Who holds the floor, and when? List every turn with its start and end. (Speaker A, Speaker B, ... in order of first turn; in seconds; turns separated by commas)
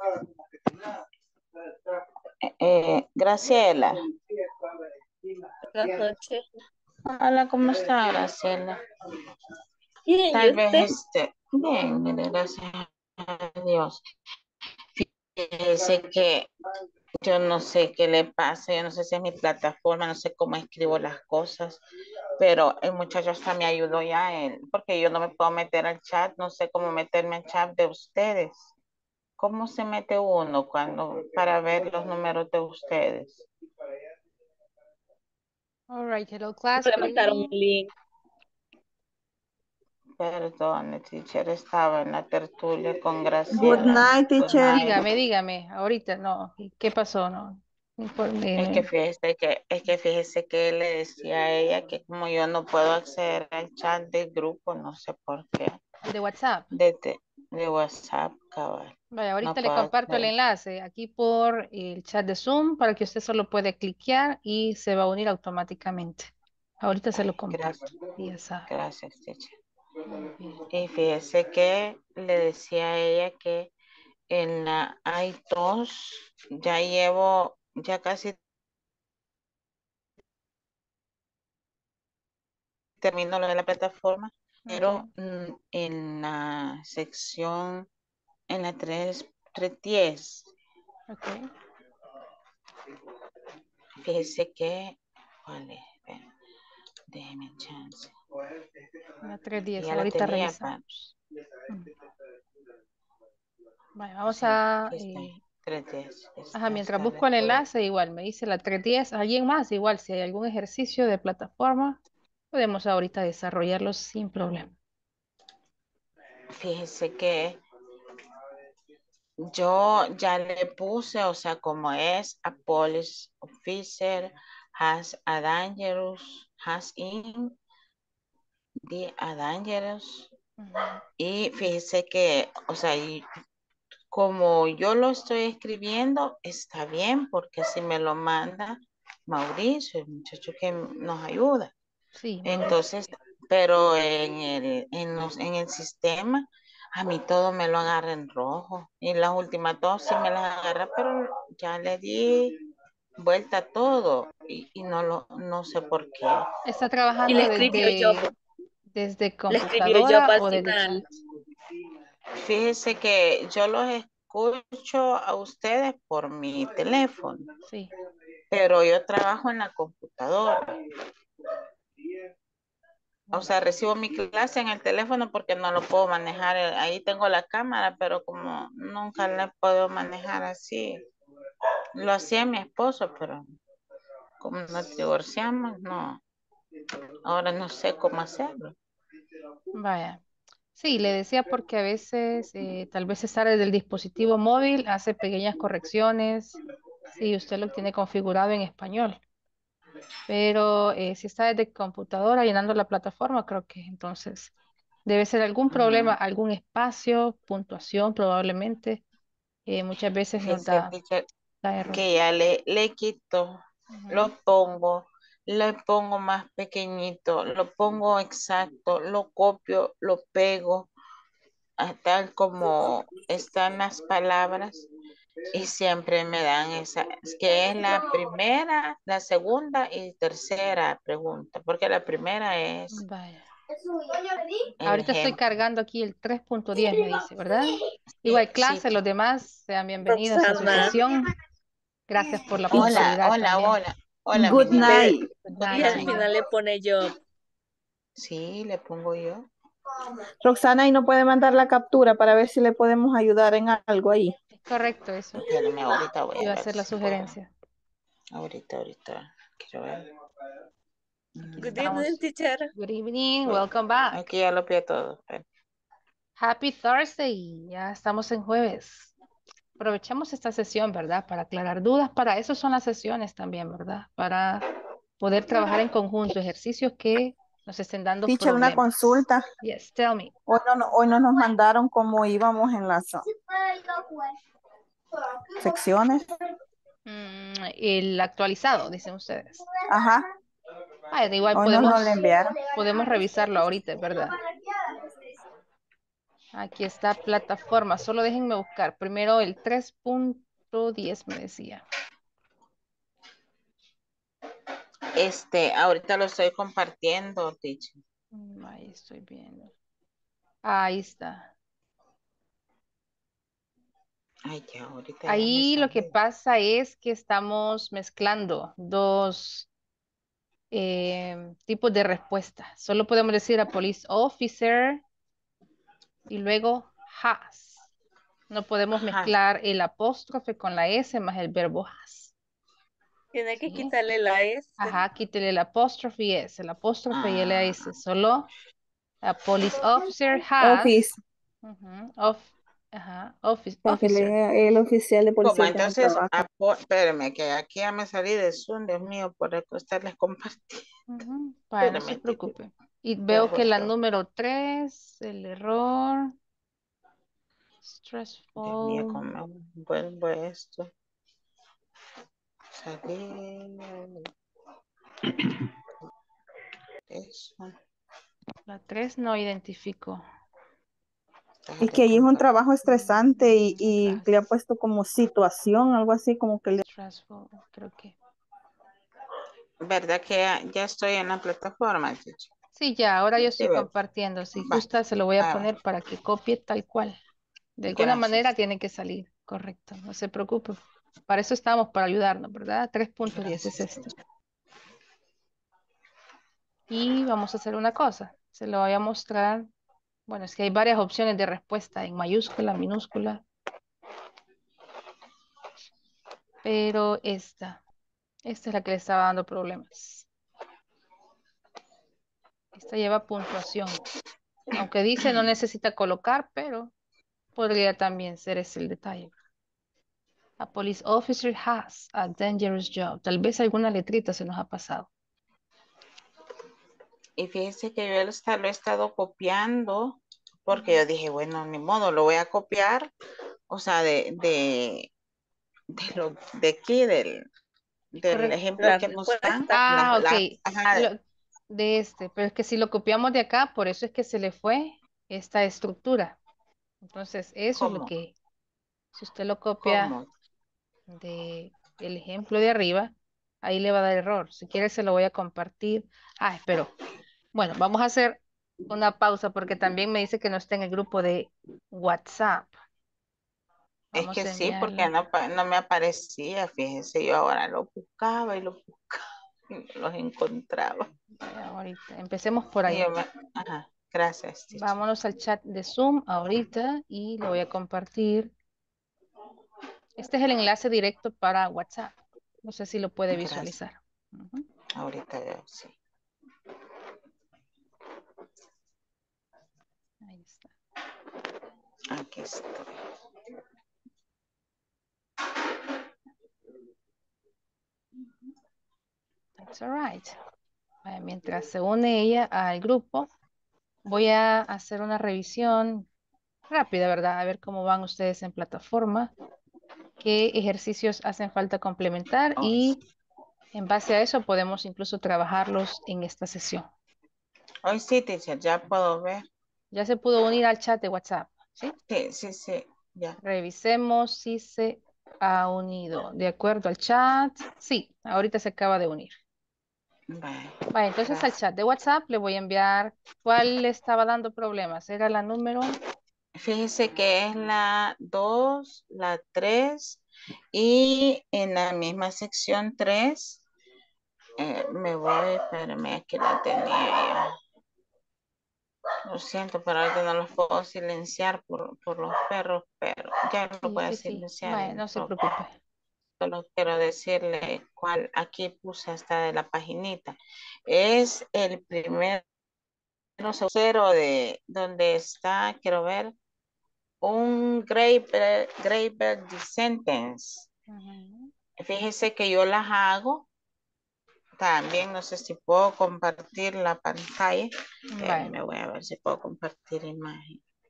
Speaker A: 2.4-4.0, Speaker B: 5.7-6.4, Speaker A: 7.0-8.8, Speaker B: 10.1-10.9, Speaker A: 10.3-14.0, Speaker A: 15.0-16.5, Speaker A: 17.2-21.8, Speaker A: 22.4-28.7, Speaker A: 29.4-33.5, Speaker C: 35.9-37.5, Speaker B: 36.8-37.9, Speaker A: 40.2-45.0, Speaker D: 43.5-44.8, Speaker C: 43.6-44.0, Speaker C: 44.6-48.9, Speaker A: 48.6-55.8, Speaker C: 56.0-56.7, Speaker A: 56.7-60.3, Speaker C: 59.1-66.3, Speaker C: 66.8-68.7, Speaker A: 67.5-67.9, Speaker A: 68.7-69.5, Speaker C: 70.0-70.6, Speaker A: 70.7-73.7, Speaker A: 74.3-78.4, Speaker A: 83.0-87.9, Speaker C: 84.7-85.1, Speaker A: 88.5-90.5, Speaker C: 91.1-91.5, Speaker A: 94.0-96.3, Speaker A: 97.1-98.1, Speaker C: 99.2-101.1, Speaker A: 99.8-100.8, Speaker C: 104.0-105.4, Speaker A: 104.2-107.6, Speaker C: 106.5-112.0, Speaker C: 112.5-114.7, Speaker A: 116.5-117.6, Speaker A: 119.4-127.6, Speaker A: 128.9-130.3, Speaker C: 130.6-131.0, Speaker A: 131.2-133.2, Speaker A: 134.1-141.7, Speaker C: 142.2-143.1, Speaker A: 142.4-152.6, Speaker A: 153.2-156.4, Speaker C: 156.7-158.3, Speaker B: 157.3-158.3, Speaker C: 158.9-161.1, Speaker B: 159.5-161.0, Speaker A: 162.4-167.5, Speaker A: 168.5-170.7, Speaker C: 173.3-173.6, Speaker A: 173.3-181.0, Speaker A: 181.9-183.4, Speaker A: 184.4-186.2, Speaker A: 187.2-188.7, Speaker C: 189.8-190.2, Speaker C: 190.8-196.6, Speaker C: 197.2-199.2, Speaker C: 200.3-204.5, Speaker C: 205.1-209.0, Speaker A: 205.7-206.2, Speaker C: 209.7-210.9, Speaker A: 210.4-211.2, Speaker C: 211.6-212.0, Speaker A: 211.9-220.9, Speaker C: 213.9-214.3, Speaker A: 221.8-224.8, Speaker A: 225.5-233.0, Speaker C: 232.9-233.5, Speaker A: 234.8-235.4, Speaker C: 234.8-241.3, Speaker A: 238.2-239.0, Speaker B: 240.1-241.0, Speaker C: 242.1-243.8, Speaker A: 242.7-246.2, Speaker D: 242.7-243.0, Speaker D: 244.3-245.3, Speaker C: 245.4-246.2, Speaker B: 245.7-247.1, Speaker A: 248.2-249.5, Speaker D: 250.4-254.3, Speaker C: 254.5-255.5, Speaker A: 255.3-257.4, Speaker C: 256.4-257.5, Speaker A: 258.3-260.1, Speaker A: 261.4-262.0, Speaker C: 261.4-262.2, Speaker B: 261.6-262.7, Speaker C: 262.7-264.3, Speaker A: 264.1-265.4, Speaker C: 266.4-269.1, Speaker C: 269.8-274.7, Speaker C: 275.2-280.3, Speaker D: 278.3-279.4, Speaker D: 280.5-283.3, Speaker D: 285.6-286.2, Speaker C: 287.1-289.6, Speaker D: 289.9-290.2, Speaker C: 291.1-292.2, Speaker D: 291.5-292.6, Speaker C: 292.7-294.4, Speaker C: 296.5-301.8, Speaker A: 305.1-308.0, Speaker C: 308.3-309.7, Speaker C: 310.6-311.5, Speaker A: 314.4-316.1, Speaker C: 315.3-319.7, Speaker C: 320.7-325.0, Speaker C: 326.3-327.9, Speaker C: 328.5-332.3, Speaker A: 328.9-329.3, Speaker B: 333.3-334.9, Speaker C: 333.6-333.9, Speaker C: 334.8-338.5, Speaker A: 337.1-338.0, Speaker C: 339.2-340.9, Speaker D: 340.6-341.2, Speaker C: 341.6-344.3, Speaker D: 343.9-346.3, Speaker A: 345.4-350.9, Speaker C: 351.1-356.3, Speaker A: 351.8-352.5, Speaker A: 353.3-353.9, Speaker C: 357.8-359.2, Speaker A: 358.6-360.9, Speaker A: 362.7-364.3, Speaker A: 367.1-367.8, Speaker C: 368.7-370.2, Speaker A: 371.6-372.5, Speaker D: 371.8-376.8, Speaker C: 372.8-374.3, Speaker C: 376.9-378.1, Speaker A: 379.8-382.5, Speaker C: 382.8-387.2, Speaker A: 383.4-383.9, Speaker A: 384.6-384.8, Speaker A: 385.4-385.7, Speaker C: 387.8-394.1, Speaker A: 387.9-388.4, Speaker A: 393.3-394.1, Speaker C: 396.9-399.7, Speaker C: 400.3-403.4, Speaker C: 406.6-407.8, Speaker C: 408.4-410.3, Speaker C: 412.7-414.0, Speaker C: 414.7-416.9, Speaker C: 417.6-419.3, Speaker C: 420.6-425.1, Speaker A: 427.4-433.1, Speaker A: 433.7-435.1, Speaker A: 435.9-437.4, Speaker A: 438.1-441.1, Speaker C: 438.3-438.6, Speaker B: 438.8-439.8, Speaker C: 439.7-446.4, Speaker C: 447.0-448.3, Speaker A: 447.8-448.1, Speaker C: 449.1-450.1, Speaker A: 449.8-450.3, Speaker C: 451.1-456.9, Speaker C: 457.5-462.8, Speaker A: 464.1-471.1, Speaker C: 464.1-465.1, Speaker C: 471.4-473.1, Speaker A: 472.9-475.0, Speaker C: 474.7-478.5, Speaker C: 480.2-484.6, Speaker A: 483.3-483.7, Speaker A: 484.9-485.9, Speaker C: 490.2-490.7, Speaker A: 492.1-493.0, Speaker C: 499.6-500.4, Speaker C: 501.0-503.3, Speaker C: 504.0-506.1, Speaker C: 506.7-509.3, Speaker C: 510.2-513.0, Speaker A: 512.6-513.0, Speaker C: 513.7-516.9, Speaker A: 517.8-519.5, Speaker C: 519.9-521.9, Speaker A: 522.1-523.4, Speaker C: 523.4-529.4, Speaker A: 530.3-531.5, Speaker C: 530.9-536.0, Speaker A: 536.5-540.2, Speaker A: 540.7-543.6, Speaker A: 544.6-547.5, Speaker A: 549.3-555.3, Speaker C: 553.8-555.8, Speaker A: 556.4-560.4, Speaker A: 560.9-562.4, Speaker A: 563.4-566.3, Speaker A: 567.2-570.7, Speaker C: 570.9-571.5, Speaker A: 571.8-573.5, Speaker A: 574.6-580.6, Speaker C: 578.1-578.5